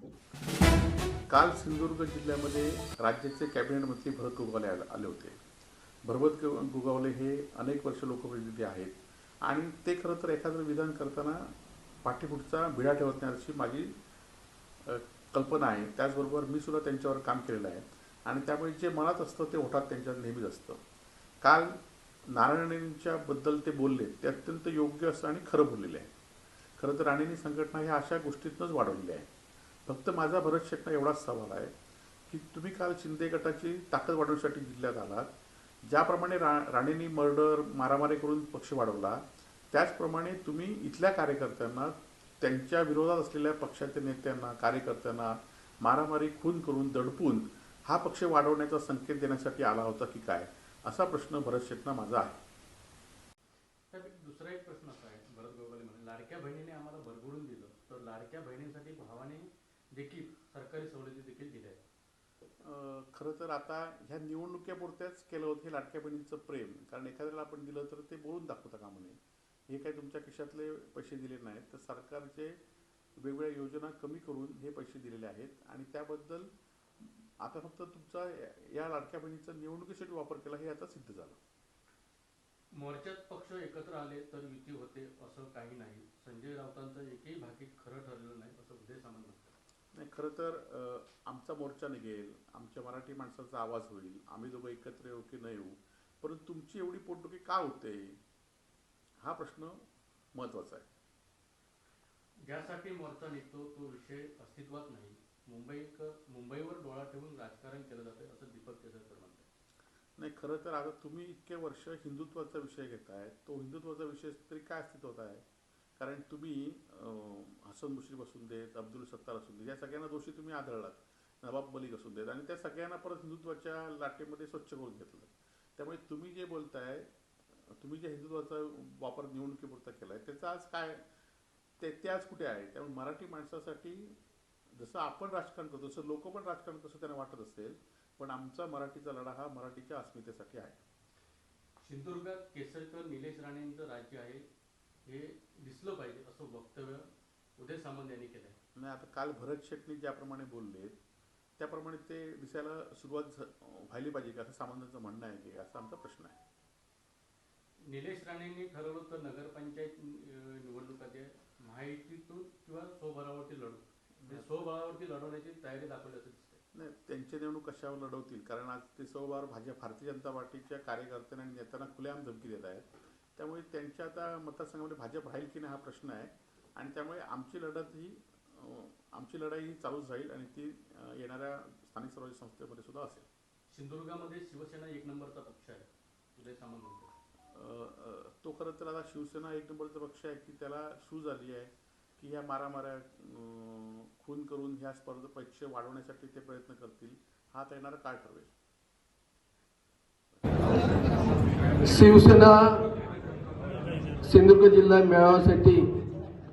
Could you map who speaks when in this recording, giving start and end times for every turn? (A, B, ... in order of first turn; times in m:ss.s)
0:01.3-0:05.4 A
0:06.0-0:11.5 A
0:12.0-0:13.9 A
0:14.8-0:20.8 A
0:21.4-0:21.8 A
0:22.3-0:26.1 A
0:26.8-0:29.3 A
0:29.9-0:31.7 A
0:32.3-0:35.3 A
0:35.8-0:52.4 A
0:53.9-1:01.8 B
1:02.6-1:12.6 A
1:13.2-1:21.4 A
1:22.7-1:29.5 B
1:29.9-1:38.2 A
1:39.2-1:39.8 A
1:40.3-1:40.9 A
1:42.4-1:49.5 B
1:50.2-1:55.4 A
1:56.0-2:07.1 A
2:07.7-2:11.0 A
2:11.8-2:14.2 A
2:14.8-2:20.8 A
2:21.8-2:24.5 B
2:25.1-2:28.6 B
2:28.8-2:31.0 A
2:31.6-2:36.4 A
2:37.9-2:46.6 B
2:44.2-2:44.5 A
2:46.7-3:03.2 A
3:03.7-3:07.1 B
3:07.5-3:18.5 A
3:21.8-3:22.9 C
3:24.2-3:25.9 C